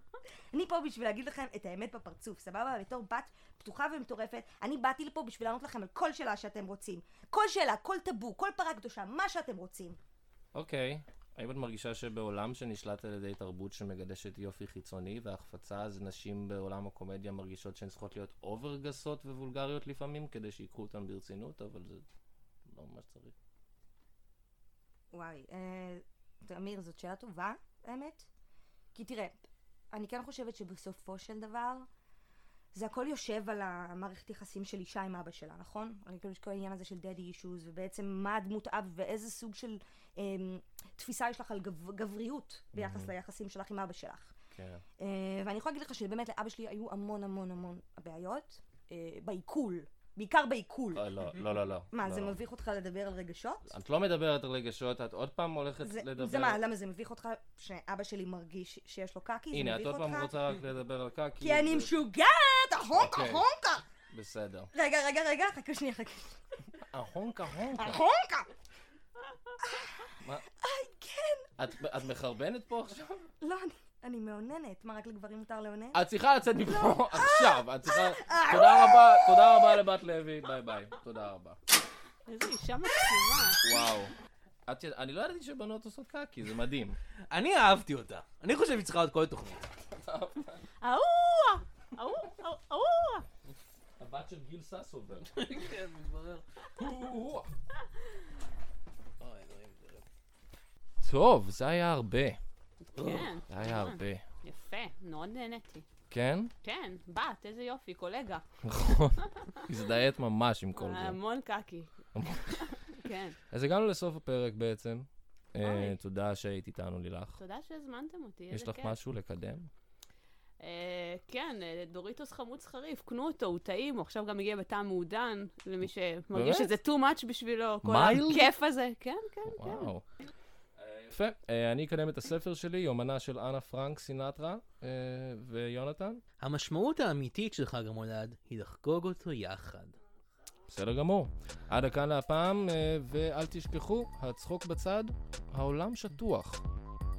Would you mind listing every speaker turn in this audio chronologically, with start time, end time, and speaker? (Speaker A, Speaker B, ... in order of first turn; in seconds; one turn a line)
Speaker A: 0.5-10.0
Speaker B: 10.5-22.0
Speaker B: 22.6-23.3
Speaker A: 25.1-28.3
Speaker A: 28.9-31.9
Speaker A: 32.7-44.3
Speaker B: 42.7-43.1
Speaker B: 44.5-44.8
Speaker A: 45.0-51.0
Speaker B: 50.9-52.4
Speaker A: 51.9-53.7
Speaker B: 53.7-56.6
Speaker A: 55.8-60.3
Speaker B: 59.5-61.9
Speaker A: 61.4-63.8
Speaker B: 62.9-63.4
Speaker B: 64.1-64.7
Speaker A: 64.7-66.4
Speaker B: 66.9-68.0
Speaker A: 67.8-68.5
Speaker A: 69.6-71.5
Speaker B: 71.6-73.3
Speaker A: 73.4-76.0
Speaker B: 75.9-81.6
Speaker A: 76.9-79.8
Speaker C: 82.3-83.6
Speaker B: 83.6-84.1
Speaker B: 84.7-87.0
Speaker D: 87.3-89.7
Speaker B: 90.0-90.6
Speaker C: 90.8-93.2
Speaker B: 94.0-95.5
Speaker D: 95.3-96.4
Speaker B: 96.8-97.5
Speaker D: 99.2-100.0
Speaker B: 101.0-102.4
Speaker C: 102.9-105.8
Speaker D: 103.0-103.3
Speaker B: 103.5-104.2
Speaker B: 106.1-106.5
Speaker C: 106.6-108.4
Speaker B: 108.6-111.2
Speaker C: 110.7-111.9
Speaker B: 112.1-112.6
Speaker C: 112.6-113.3
Speaker B: 113.5-117.4
Speaker C: 115.6-116.0
Speaker C: 117.4-119.0
Speaker B: 118.5-119.7
Speaker C: 120.6-129.9
Speaker B: 126.3-126.7
Speaker B: 127.8-128.5
Speaker B: 129.5-130.0
Speaker B: 130.8-136.2
Speaker D: 136.4-140.0
Speaker B: 140.7-146.6